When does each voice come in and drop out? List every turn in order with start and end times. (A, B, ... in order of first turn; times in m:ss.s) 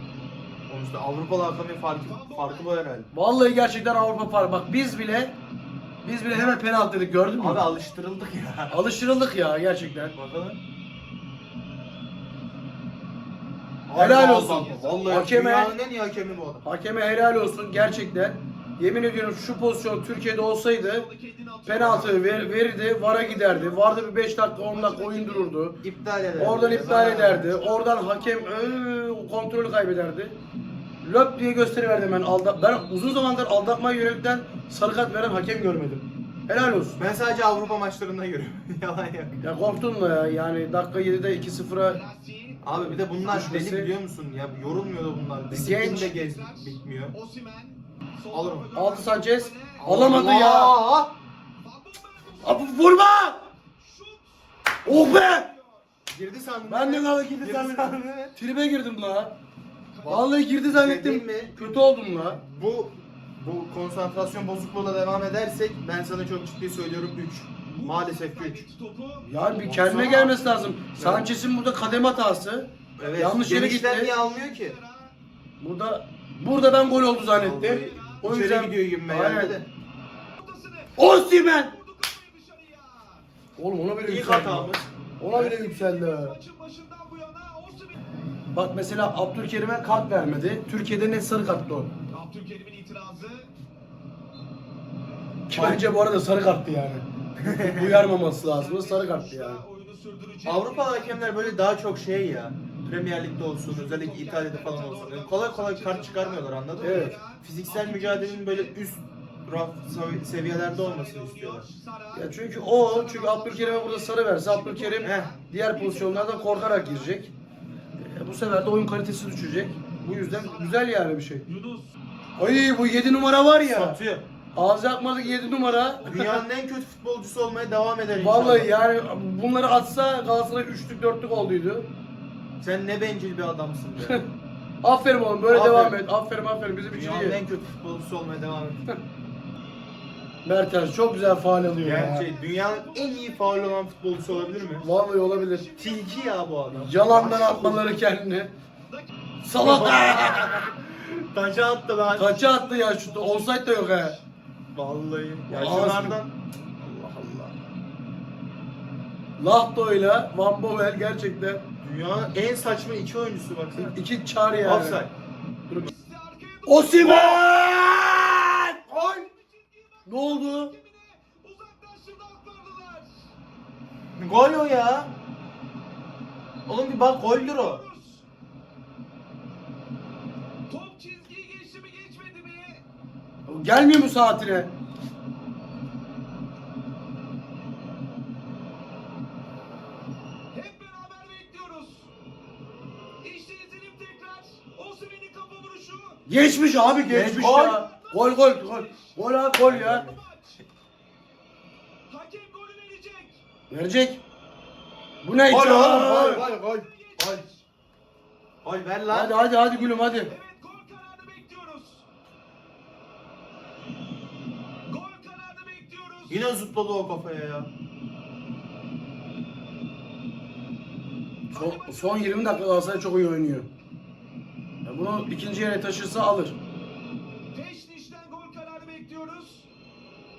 0:00.7-0:03.1 A
0:02.0-0:02.7 B
0:03.1-0:05.3 C
0:06.0-0:07.7 C
0:07.4-0:08.8 A
0:08.7-0:10.2 C
0:10.1-0:10.6 A
0:13.9-0:16.6 A
0:13.9-0:15.7 C
0:14.1-0:15.7 B
0:16.6-0:21.1 C
0:20.7-0:25.6 B
0:21.6-0:25.8 C
0:21.8-0:22.1 A
0:25.8-0:27.5 A
0:26.4-0:30.4 C
0:27.2-0:28.8 B
0:31.0-0:37.0 C
0:37.0-0:39.4 A
0:37.2-0:37.8 B
0:39.4-0:42.0 C
0:41.9-0:42.6 B
0:42.6-0:47.1 A
0:42.7-0:43.9 C
0:45.5-0:46.2 C
0:45.7-0:50.3 B
0:48.3-0:48.7 A
0:48.7-0:50.8 C
0:49.8-0:51.1 A
0:51.6-0:52.9 B
0:52.4-0:53.5 C
0:53.6-0:55.9 B
0:54.8-0:55.5 C
0:56.1-0:58.4 A
0:56.6-0:59.3 C
0:59.9-1:00.3 B
1:00.0-1:01.7 A
1:00.1-1:02.4 C
1:02.5-1:08.6 A
1:07.7-1:09.3 B
1:09.2-1:14.1 C
1:09.6-1:10.4 A
1:11.0-1:11.3 A
1:13.0-1:14.8 A
1:13.9-1:15.1 B
1:15.6-1:19.6 C
1:17.2-1:18.3 B
1:17.3-1:19.7 A
1:20.4-1:23.2 B
1:21.0-1:21.7 C
1:23.6-1:26.4 C
1:24.0-1:25.6 A
1:25.4-1:28.0 B
1:28.5-1:31.9 C
1:32.1-1:33.5 B
1:35.5-1:39.6 C
1:35.5-1:35.8 A
1:37.4-1:38.1 A
1:38.1-1:41.6 B
1:40.4-1:51.7 A
1:43.7-1:48.8 B
1:46.8-1:47.1 C
1:50.6-1:57.2 B
1:52.1-1:57.3 C
1:55.0-1:55.3 A
1:58.0-2:01.4 C
2:00.0-2:00.8 B
2:01.4-2:01.9 B
2:02.4-2:04.0 C
2:03.7-2:04.2 A
2:04.5-2:06.4 C
2:05.1-2:06.3 B
2:06.0-2:08.7 A
2:08.1-2:11.9 C
2:12.6-2:14.2 A
2:14.0-2:14.3 C
2:14.8-2:17.4 C
2:15.5-2:16.0 A
2:16.9-2:18.8 A
2:20.4-2:22.3 C
2:21.8-2:24.8 A
2:22.1-2:26.5 B
2:24.8-2:25.7 C
2:25.8-2:27.7 A
2:26.7-2:28.5 C
2:27.1-2:27.8 B
2:29.4-2:30.7 C
2:29.6-2:32.4 A
2:32.2-2:34.2 C
2:32.2-2:34.2 B
2:34.7-2:36.3 A
2:35.5-2:36.2 C
2:36.8-2:37.5 C
2:39.4-2:41.6 C
2:41.8-2:44.0 A
2:43.8-2:45.0 C
2:44.6-2:45.1 A
2:45.8-2:47.4 B
2:46.7-2:49.2 C
2:47.0-2:47.4 A
2:48.8-2:53.3 B
2:50.0-2:50.7 C
2:54.2-2:55.1 A
2:56.6-2:57.8 A
2:57.1-2:58.2 B
3:00.7-3:02.8 B
3:03.5-3:04.7 C
3:10.5-3:12.1 B
3:13.2-3:16.2 B
3:16.3-3:20.0 C
3:17.1-3:17.8 A
3:17.4-3:20.6 B
3:19.6-3:20.2 A
3:22.1-3:23.4 B
3:23.7-3:24.2 C
3:25.2-3:26.4 C
3:25.5-3:27.4 A
3:26.2-3:27.6 B
3:28.6-3:29.4 A
3:29.1-3:30.3 C
3:30.1-3:32.0 B
3:34.8-3:36.5 B
3:36.3-3:37.7 A
3:41.5-3:43.1 B
3:41.5-3:43.7 C
3:44.8-3:46.6 C
3:47.5-3:49.7 B